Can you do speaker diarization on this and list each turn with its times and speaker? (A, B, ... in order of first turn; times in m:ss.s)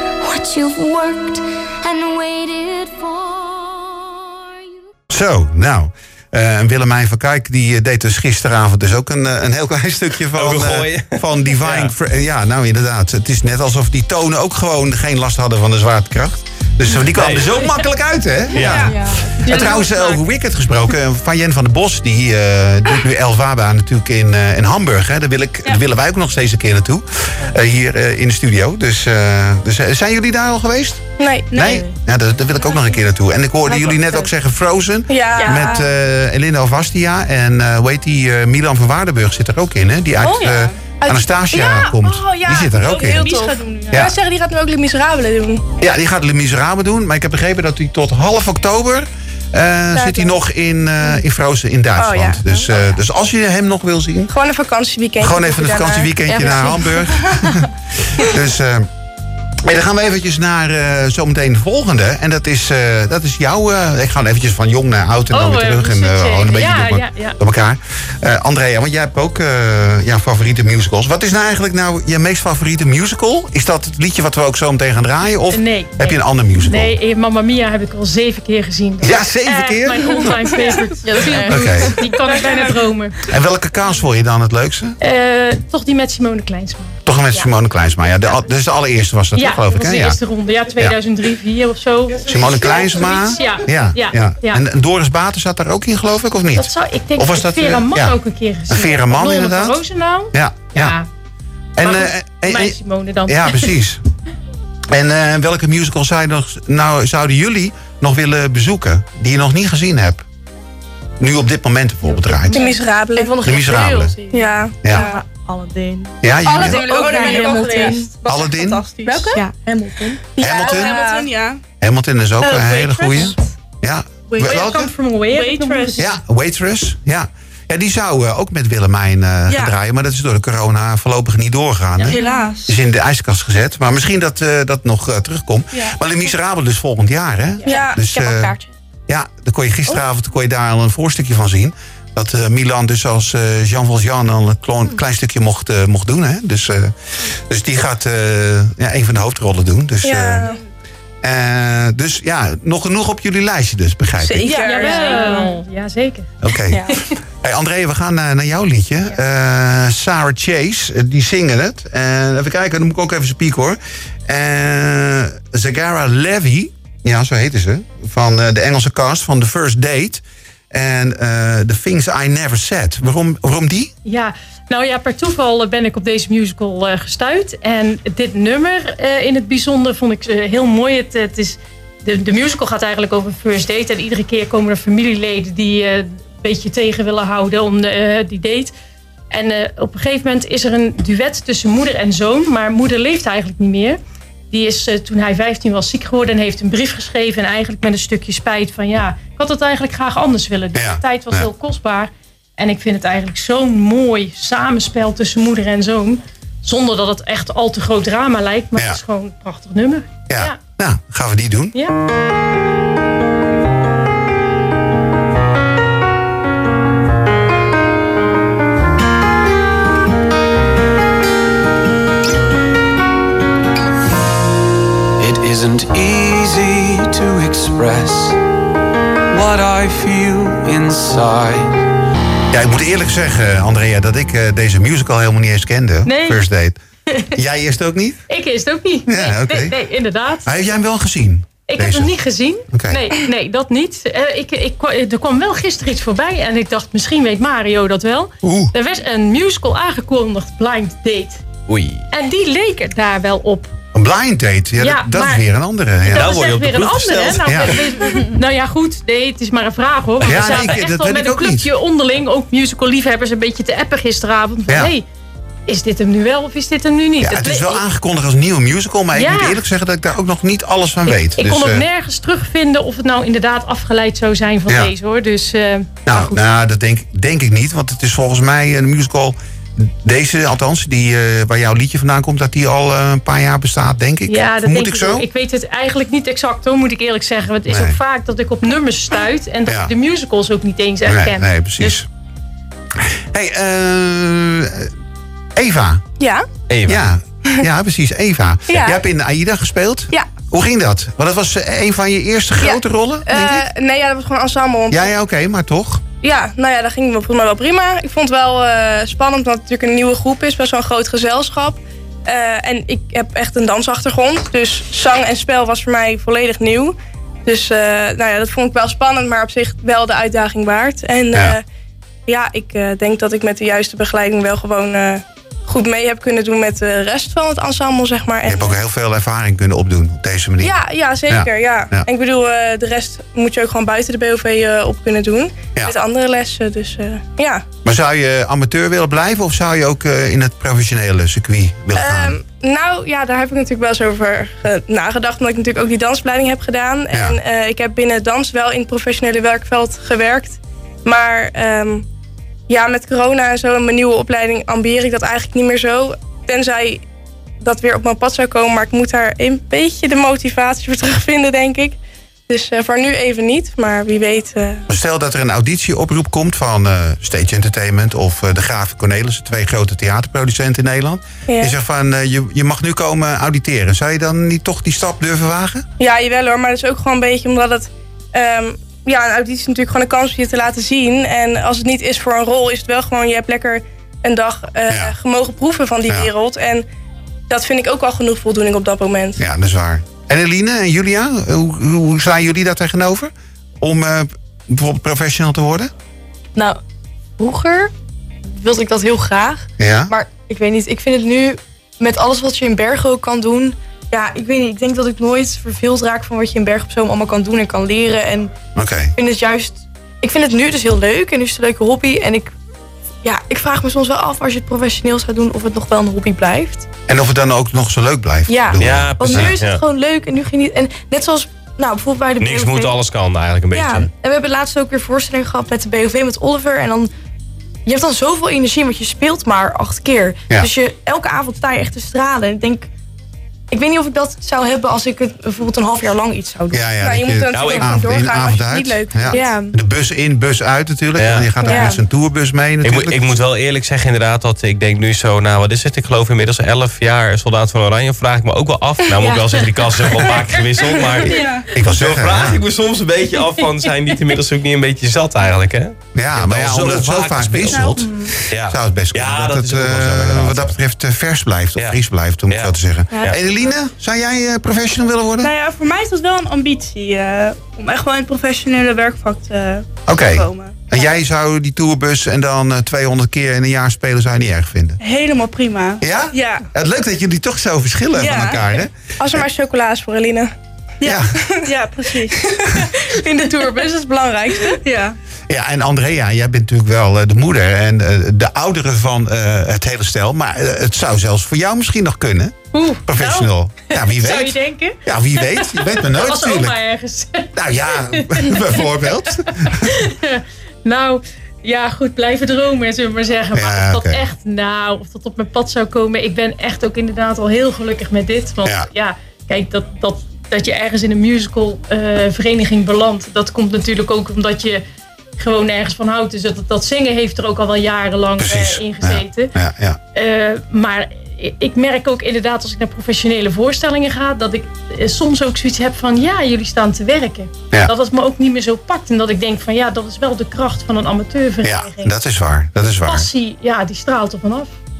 0:00.2-0:04.8 A
0:05.1-0:43.3 B
0:10.3-0:11.9 C
0:17.1-0:17.8 C
0:18.5-0:18.9 C
0:18.5-0:19.0 D
0:18.7-0:19.3 E
0:19.5-0:20.2 F
0:31.2-0:31.8 G
0:31.5-0:31.9 D
0:33.6-0:34.3 E
0:35.1-0:35.8 G
0:35.4-0:35.8 E
0:40.2-0:40.9 D
0:41.0-0:45.6 G
0:42.7-0:44.1 D
0:45.8-0:54.3 B
0:52.0-0:52.4 G
0:54.3-0:56.4 G
0:55.2-0:58.9 B
0:56.3-0:57.6 E
0:59.6-1:16.9 B
1:05.3-1:07.4 F
1:15.5-1:23.2 F
1:19.0-1:20.5 B
1:21.0-1:22.1 E
1:21.4-1:22.0 B
1:22.4-1:22.7 D
1:23.3-1:25.0 B
1:25.0-1:27.5 F
1:27.0-1:30.2 B
1:29.3-1:34.6 F
1:32.2-1:38.2 B
1:36.5-1:41.1 F
1:38.7-1:39.8 B
1:40.3-1:41.0 B
1:41.8-1:44.0 B
1:41.8-1:43.7 F
1:44.9-1:50.2 B
1:51.2-1:52.6 B
1:52.5-1:58.1 E
1:52.5-1:53.4 G
1:53.4-1:54.1 B
1:54.3-1:55.0 G
1:54.9-1:55.2 D
1:56.2-1:56.8 B
1:56.4-1:59.4 D
1:56.4-1:58.1 G
1:58.3-1:58.8 B
1:59.0-2:00.2 E
1:59.1-1:59.4 G
2:00.3-2:01.3 G
2:00.4-2:00.9 B
2:00.4-2:01.6 D
2:01.8-2:04.9 B
2:02.4-2:03.4 D
2:04.3-2:04.7 D
2:04.4-2:06.1 F
2:05.3-2:06.0 D
2:06.0-2:18.5 B
2:09.5-2:09.7 D
2:12.0-2:12.3 F
2:12.1-2:12.8 D
2:17.6-2:18.0 D
2:17.6-2:18.7 E
2:19.1-2:26.9 B
2:27.5-2:30.4 B
2:30.0-2:30.6 G
2:31.2-2:34.5 B
2:34.2-2:35.5 G
2:34.4-2:34.9 D
2:34.4-2:35.5 E
2:34.6-2:36.3 F
2:36.4-2:53.9 B
2:36.7-2:37.0 E
2:54.0-3:08.7 F
3:09.3-3:14.0 F
3:14.5-3:30.6 F
3:20.7-3:21.5 B
3:30.3-3:31.7 B
3:45.2-3:48.4 H
3:49.3-3:51.7 H
3:52.5-3:56.8 B
3:56.0-3:56.4 F
3:57.3-3:58.2 B
3:58.3-4:00.5 F
3:59.1-3:59.7 B
4:00.4-4:02.1 B
4:01.7-4:11.4 F
4:02.7-4:03.0 B
4:08.4-4:08.7 B
4:11.7-4:12.0 C
4:12.1-4:13.7 F
4:13.9-4:16.4 B
4:14.8-4:15.4 F
4:16.0-4:25.0 F
4:16.1-4:17.8 C
4:17.4-4:17.8 B
4:20.2-4:20.8 C
4:20.2-4:21.7 B
4:24.7-4:24.9 B
4:25.7-4:27.8 F
4:27.2-4:31.8 B
4:29.1-4:29.6 F
4:31.1-4:36.4 F
4:36.0-4:45.2 B
4:44.3-4:52.0 F
4:47.7-4:48.0 B
4:49.6-4:49.9 B
4:51.0-4:52.0 B
4:53.0-4:54.9 B
4:55.6-4:56.0 B
4:56.2-4:56.5 G
4:56.7-4:57.0 C
4:56.8-5:03.6 B
4:58.7-4:59.0 G
5:02.6-5:05.1 G
5:04.9-5:06.0 B
5:06.2-5:21.6 G
5:22.3-5:28.8 G
5:28.4-5:30.8 B
5:30.6-5:37.6 G
5:31.3-5:32.1 B
5:37.8-5:42.4 B
5:41.9-5:52.0 G
5:47.1-5:47.4 B
5:52.7-5:57.0 G
5:57.6-6:04.9 G
6:04.9-6:15.8 B
6:11.5-6:11.8 G
6:16.0-6:26.8 G
6:27.5-6:29.4 G
6:29.4-6:35.9 B
6:37.4-6:37.9 E
6:38.4-6:48.5 E
6:39.8-6:40.1 B
6:48.7-6:49.1 B
6:49.2-6:52.5 E
6:53.2-6:56.9 E
6:57.1-6:59.5 B
6:58.5-7:03.0 E
6:58.8-6:59.8 C
7:02.4-7:04.1 C
7:03.7-7:07.1 E
7:07.8-7:12.9 E
7:13.7-7:16.8 E
7:16.7-7:23.2 B
7:17.0-7:19.6 G
7:17.5-7:18.0 C
7:19.3-7:19.7 E
7:21.2-7:21.6 C
7:21.6-7:22.0 E
7:21.6-7:21.9 G
7:22.8-7:40.8 C
7:29.1-7:31.3 E
7:31.3-7:31.7 D
7:31.7-7:32.6 B
7:36.1-7:45.5 B
7:37.7-7:38.0 D
7:38.0-7:38.3 E
7:41.8-7:43.4 C
7:45.4-7:51.0 D
7:50.1-7:55.0 B
7:55.0-7:56.7 D
7:56.0-7:59.4 B
7:58.2-7:58.8 D
7:59.2-8:00.5 G
8:01.0-8:02.4 D
8:01.0-8:01.3 B
8:01.4-8:04.8 G
8:04.7-8:05.2 D
8:05.5-8:16.8 B
8:12.7-8:34.8 F
8:17.5-8:19.9 B
8:23.5-8:24.2 B
8:35.4-8:39.5 F
8:38.4-8:40.0 B
8:40.1-8:52.1 F
8:51.6-8:53.3 B
8:53.0-8:54.8 F